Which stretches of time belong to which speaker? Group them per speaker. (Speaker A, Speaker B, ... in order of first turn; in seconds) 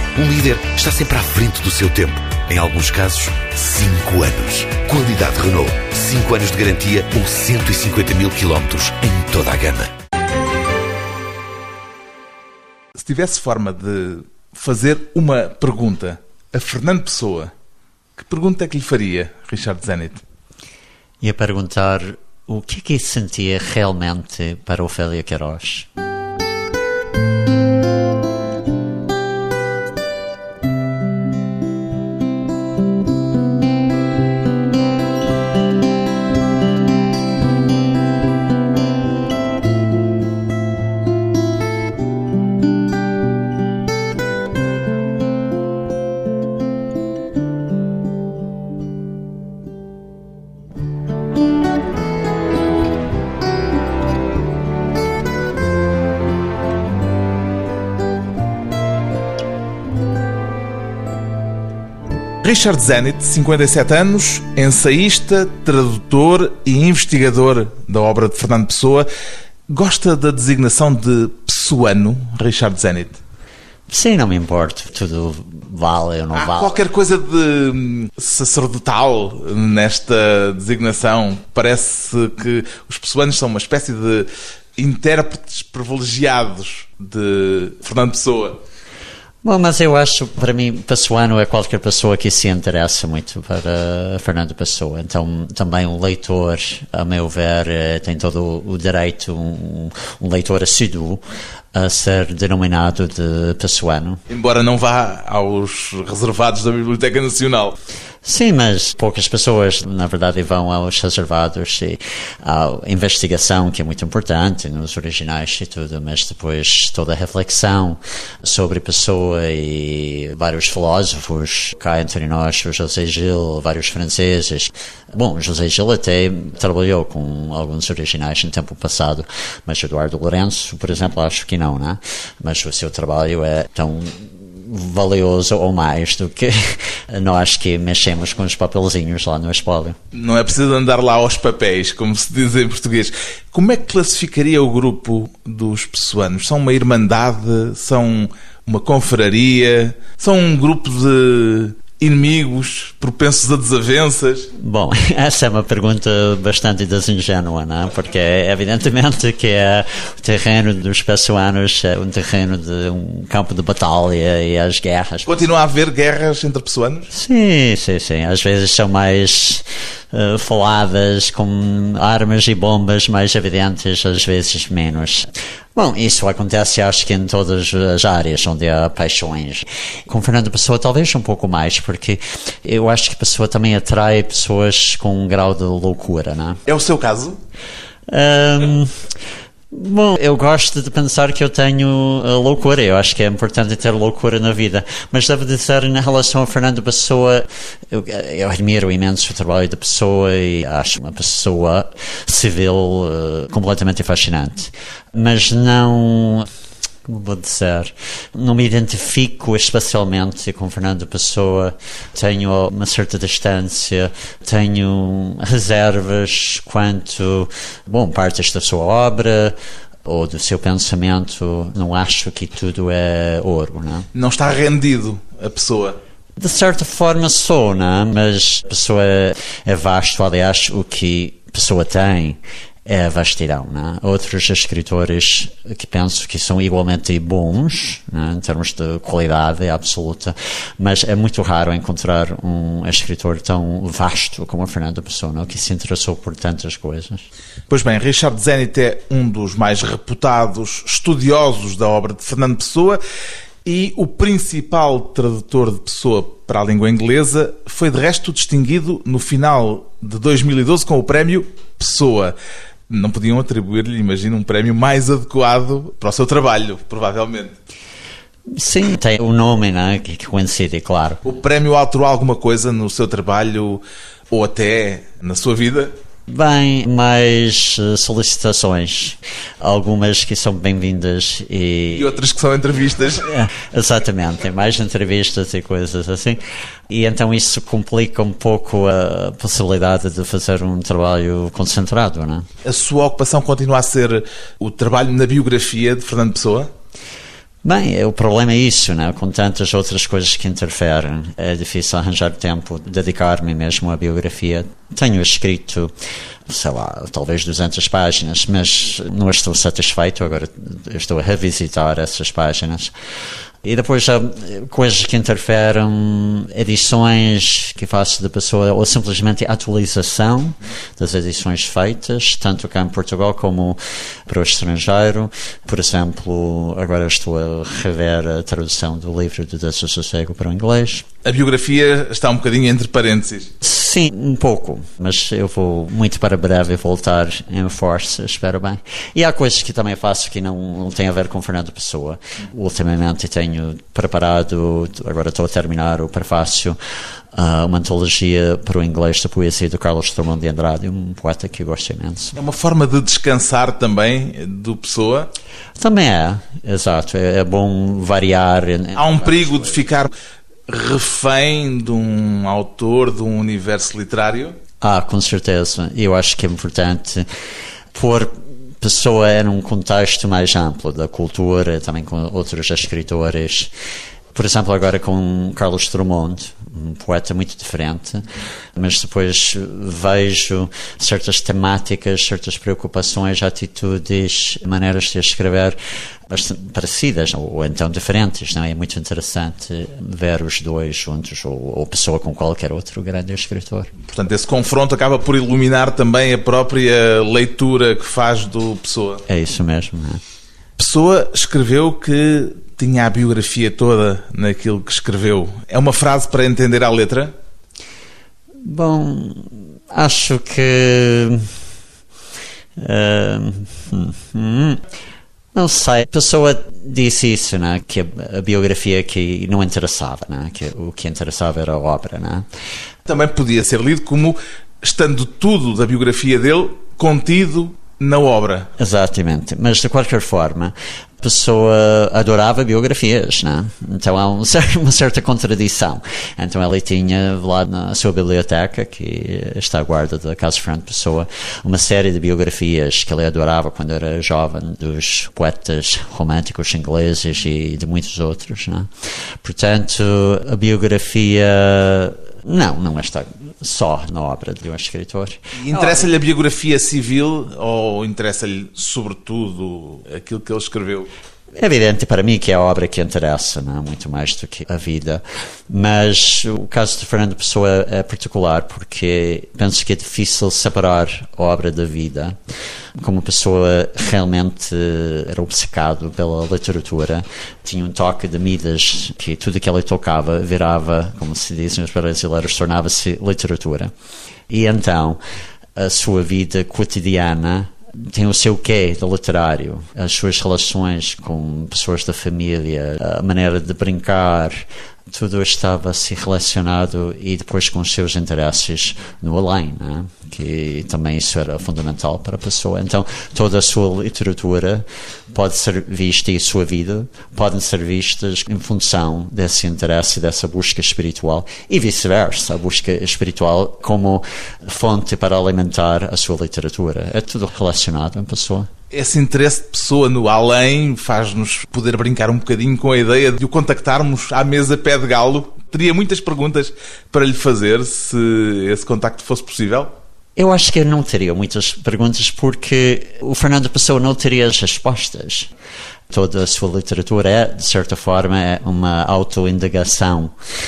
Speaker A: 0.1-9.9
Speaker B: 12.9-17.5, 18.2-20.2, 62.4-69.1, 69.7-73.2, 76.3-88.6, 104.3-107.8, 140.1-154.5, 165.2-167.1, 186.7-187.4, 224.1-226.0, 247.7-253.0, 253.6-262.3, 262.9-267.6, 271.2-275.9, 281.9-283.3, 292.6-296.7, 331.2-333.5, 352.4-355.3, 358.9-360.1, 360.7-364.6, 394.1-399.2, 400.8-407.3, 423.1-428.7, 455.6-461.1, 518.9-529.9
Speaker C: 21.2-25.9, 73.9-76.8, 89.4-101.2, 101.7-104.2, 108.2-140.0, 154.5-165.3, 167.1-186.6, 188.1-189.0, 189.7-206.5, 207.1-224.1, 226.4-247.2, 268.5-271.2, 276.3-282.1, 283.3-292.5, 297.6-305.9, 306.5-312.9, 313.6-331.0, 333.6-346.8, 347.3-352.4, 355.8-359.6, 364.8-367.3, 367.9-373.7, 374.3-385.8, 386.3-393.9, 399.3-400.2, 408.6-411.5, 412.8-414.8, 415.5-422.4, 428.8-456.1, 461.5-472.4, 473.0-483.9, 484.5-485.2, 485.8-518.7, 530.4-535.5, 536.1-540.3